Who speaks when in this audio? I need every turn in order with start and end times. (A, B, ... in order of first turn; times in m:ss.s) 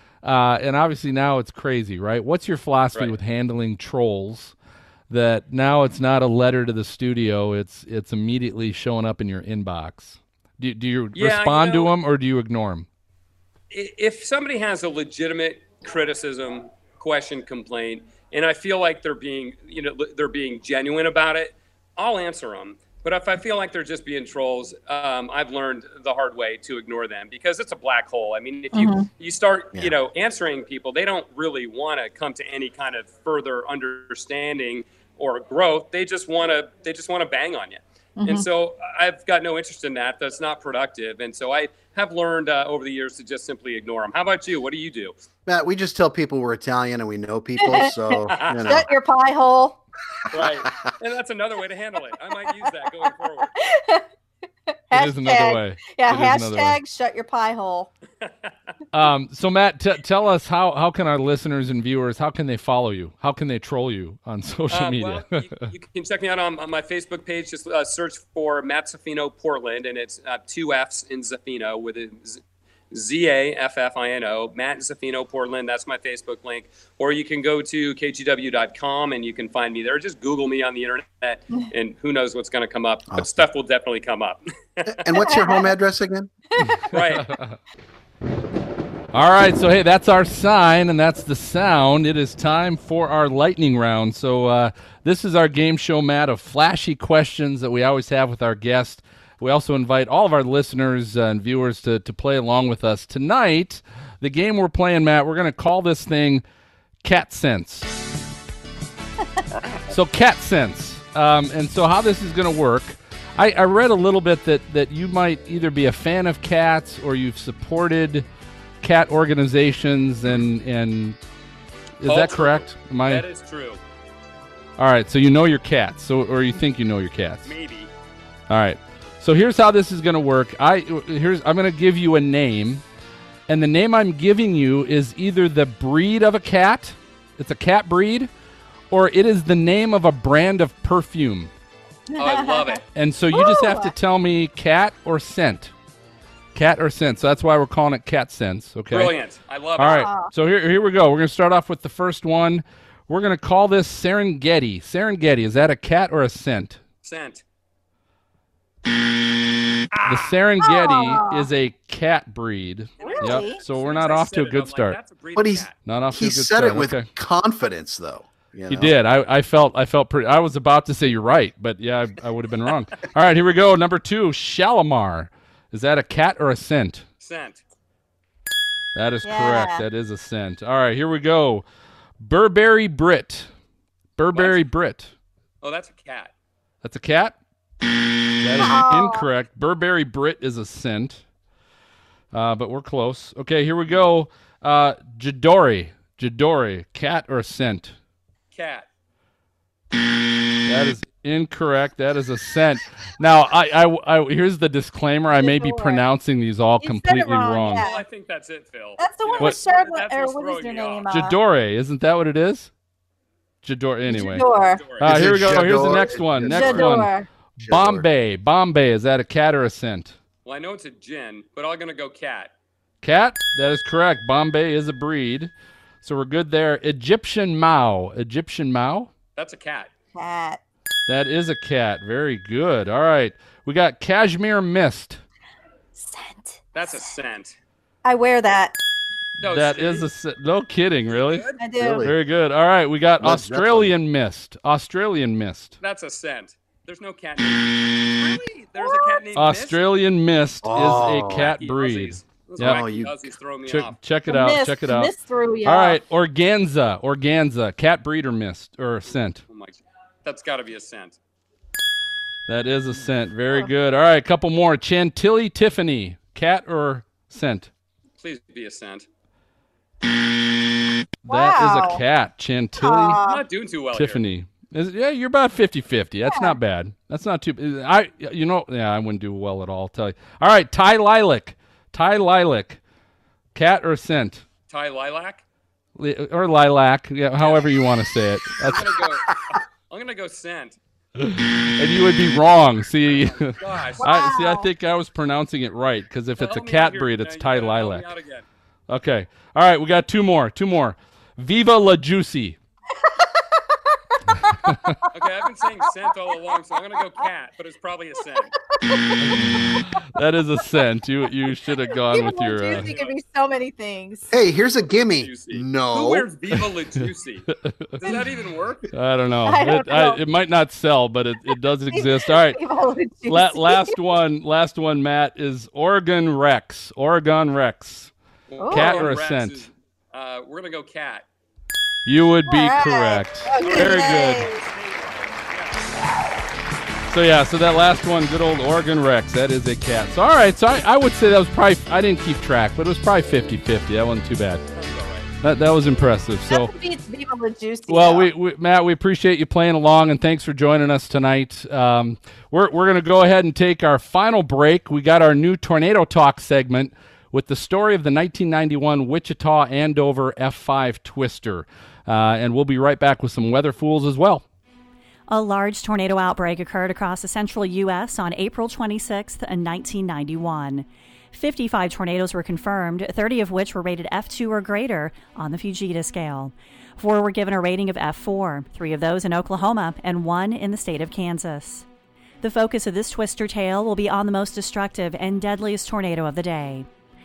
0:00.2-0:04.5 A
0:05.1-0:12.9 A
0:11.1-0:11.9 B
0:13.7-0:45.1 B
0:28.7-0:29.1 C
0:38.2-0:38.4 C
0:45.4-0:48.9 D
0:47.6-0:49.8 C
0:48.3-0:48.8 B
0:50.3-0:53.5 B
0:53.6-0:54.0 C
0:54.9-0:57.9 C
0:54.9-0:56.8 A
0:58.2-0:58.5 B
0:58.9-1:05.7 A
1:04.7-1:12.4 B
1:12.9-1:25.0 B
1:24.8-1:26.3 D
1:26.6-1:27.6 A
1:26.9-1:27.2 B
1:29.1-1:46.4 A
1:47.0-1:47.9 A
1:49.9-1:58.2 A
1:58.8-2:01.2 A
2:02.0-2:03.2 A
2:02.0-2:03.8 B
2:04.8-2:07.5 A
2:07.4-2:07.9 B
2:08.5-2:12.8 A
2:13.5-2:18.3 A
2:18.9-2:21.5 A
2:22.1-2:22.8 C
2:22.2-2:22.8 B
2:22.9-2:25.7 A
2:23.3-2:23.9 C
2:26.5-2:29.1 A
2:28.9-2:30.1 B
2:29.8-2:36.8 A
2:29.9-2:30.3 C
2:37.0-2:37.4 B
2:39.9-2:40.3 B
2:40.0-2:45.0 A
2:40.6-2:41.4 C
2:43.0-2:45.8 B
2:43.0-2:43.6 C
2:45.4-2:48.9 D
2:45.8-2:47.1 A
2:48.7-2:57.0 A
2:57.2-2:57.6 B
2:58.9-3:01.6 A
2:59.2-2:59.8 C
3:02.2-3:03.5 A
3:04.2-3:05.1 A
3:05.6-3:06.3 B
3:06.8-3:07.4 A
3:08.4-3:11.2 A
3:08.6-3:09.3 C
3:12.3-3:18.0 A
3:18.5-3:18.8 B
3:20.6-3:27.9 A
3:25.4-3:26.0 C
3:26.8-3:28.0 C
3:27.8-3:31.0 B
3:29.0-3:31.4 C
3:31.1-3:32.7 A
3:33.6-3:40.2 A
3:34.1-3:34.8 C
3:34.5-3:35.1 B
3:35.0-3:36.9 D
3:36.5-3:37.3 C
3:37.6-3:38.1 D
3:40.4-3:42.5 B
3:43.0-3:49.1 A
3:49.4-3:49.9 B
3:50.1-3:50.6 C
3:51.1-3:55.2 A
3:56.0-3:57.0 C
3:56.7-3:57.6 B
3:58.0-3:58.8 C
3:59.4-4:01.5 A
3:59.4-4:00.1 B
4:01.1-4:01.6 B
4:01.6-4:02.1 C
4:01.8-4:02.1 D
4:02.0-4:05.8 A
4:03.2-4:03.9 D
4:05.8-4:09.9 B
4:08.8-4:09.2 C
4:09.3-4:12.9 A
4:10.6-4:11.5 D
4:11.0-4:14.0 B
4:12.6-4:13.1 D
4:13.7-4:19.4 A
4:14.3-4:16.0 C
4:19.5-4:21.2 B
4:22.5-4:27.7 A
4:28.2-4:29.1 B
4:31.2-4:33.2 A
4:31.3-4:32.0 C
4:32.8-4:33.4 C
4:33.2-4:34.2 B
4:33.9-4:42.8 A
4:36.3-4:36.6 C
4:43.5-4:44.4 A
4:44.7-4:45.4 B
4:46.0-4:48.9 A
4:47.4-4:47.8 B
4:48.6-4:50.8 B
4:51.2-4:58.0 A
4:53.0-4:54.1 B
4:54.0-4:54.7 C
4:56.4-4:58.4 B
4:58.9-5:02.6 A
5:03.1-5:04.7 C
5:04.7-5:05.0 A
5:05.1-5:08.5 B
5:08.8-5:09.8 C
5:09.2-5:12.9 A
5:12.0-5:14.3 C
5:12.8-5:13.2 B
5:14.3-5:16.3 D
5:14.9-5:17.5 B
5:17.5-5:18.0 A
5:18.0-5:18.9 B
5:18.9-5:22.6 A
5:19.4-5:20.2 C
5:21.9-5:24.0 C
5:23.3-5:28.1 A
5:28.5-5:31.2 B
5:28.6-5:29.1 C
5:28.7-5:29.7 A
5:32.0-5:34.5 A
5:32.4-5:34.6 C
5:33.6-5:35.9 B
5:37.1-5:44.6 A
5:44.7-5:45.3 B
5:45.4-5:46.7 A
5:46.5-5:48.3 C
5:47.9-6:04.4 A
6:05.3-6:21.8 E
6:22.4-6:26.9 E